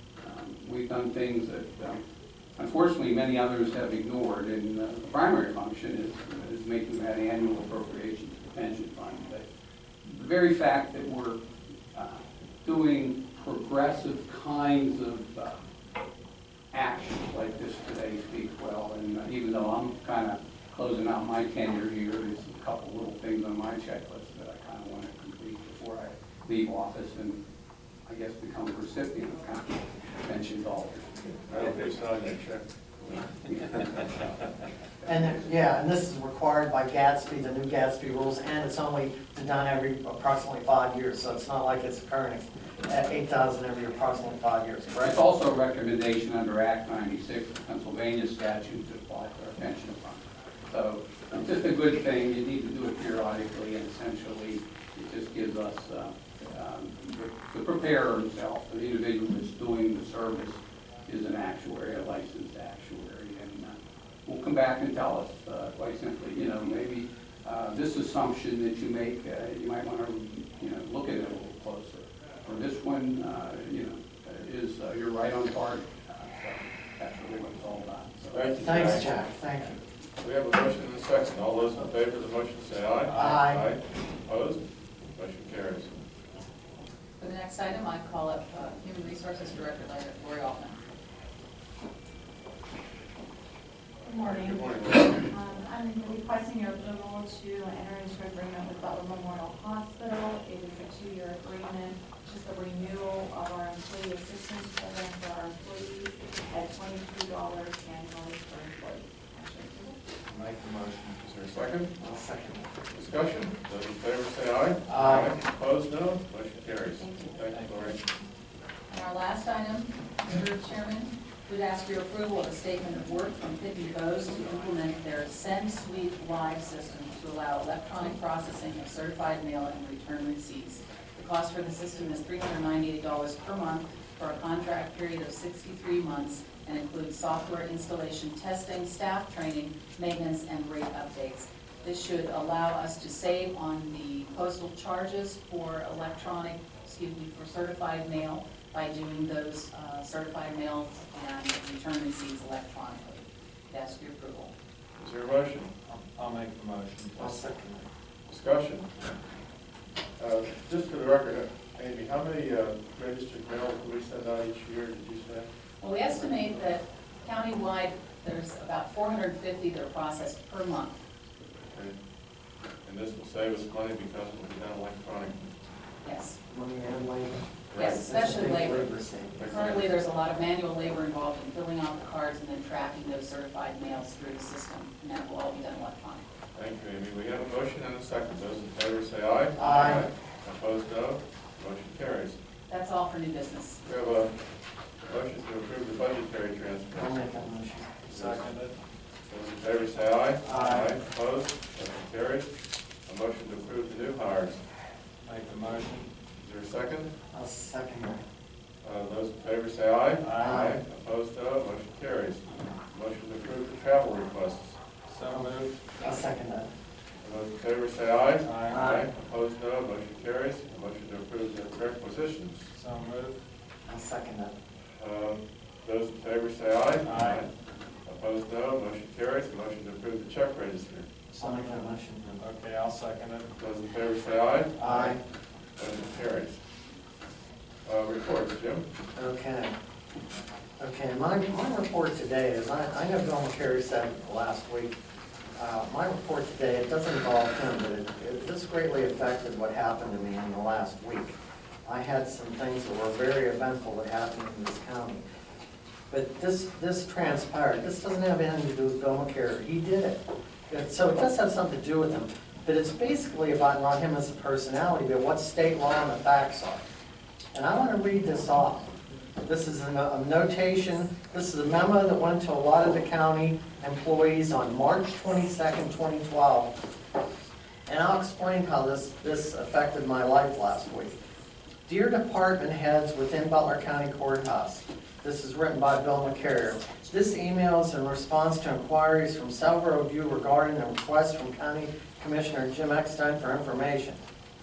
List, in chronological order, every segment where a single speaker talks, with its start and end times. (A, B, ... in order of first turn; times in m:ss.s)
0:00.2-0:02.0 A
0:02.6-0:09.5 A
0:10.0-0:11.4 A
0:11.9-0:15.6 A
0:16.7-0:27.4 A
0:28.1-0:31.7 A
0:31.5-0:32.6 B
0:33.1-0:34.4 A
0:35.0-0:35.3 A
0:35.1-0:45.2 C
0:45.0-1:19.0 A
1:18.3-1:19.1 B
1:18.6-1:19.8 C
1:20.2-1:24.6 B
1:23.1-1:23.4 D
1:23.1-1:23.7 C
1:25.2-1:25.9 B
1:27.2-1:30.8 E
1:34.0-1:50.0 F
1:34.2-1:35.3 B
1:50.3-1:51.3 D
1:51.2-1:51.9 B
1:52.0-1:52.7 C
1:52.9-1:58.0 B
1:54.9-1:55.4 C
1:57.5-1:57.9 D
1:58.9-2:34.5 E
2:35.0-2:35.7 B
2:35.9-2:37.4 D
2:37.2-2:37.8 C
2:38.3-2:38.9 B
2:40.2-2:45.5 B
2:45.8-2:51.0 E
2:52.8-2:55.5 B
2:56.0-2:56.4 E
2:56.5-2:59.5 C
2:57.7-2:59.8 B
2:57.8-2:58.9 E
2:59.5-3:06.2 E
3:06.6-3:12.4 B
3:09.6-3:10.1 C
3:09.6-3:10.0 E
3:12.7-3:13.8 E
3:13.8-3:14.4 B
3:15.1-3:17.2 B
3:16.9-3:18.0 C
3:18.1-3:18.8 D
3:18.1-3:18.5 B
3:19.3-3:22.5 B
3:20.5-3:20.9 D
3:23.1-3:24.6 B
3:25.2-3:26.1 D
3:26.4-3:27.1 B
3:27.3-3:28.2 C
3:28.8-3:34.8 B
3:30.2-3:30.6 D
3:30.4-3:30.8 C
3:35.1-3:35.8 D
3:36.0-3:36.7 C
3:37.2-3:42.7 B
3:38.4-3:38.8 D
3:38.7-3:39.0 C
3:42.7-3:43.4 D
3:43.9-3:44.5 C
3:45.0-3:47.5 B
3:47.0-3:47.4 D
3:48.1-3:51.1 B
3:51.3-3:53.6 D
3:51.4-3:52.4 C
3:53.6-3:55.1 B
3:54.8-3:55.2 C
3:55.8-3:56.6 B
3:57.8-3:58.9 B
3:59.2-3:59.7 C
4:00.8-4:05.0 C
4:05.6-4:15.2 C
4:16.1-4:26.8 C
4:27.5-4:28.9 C
4:29.4-4:36.8 C
4:37.9-4:41.2 C
4:41.9-4:54.2 C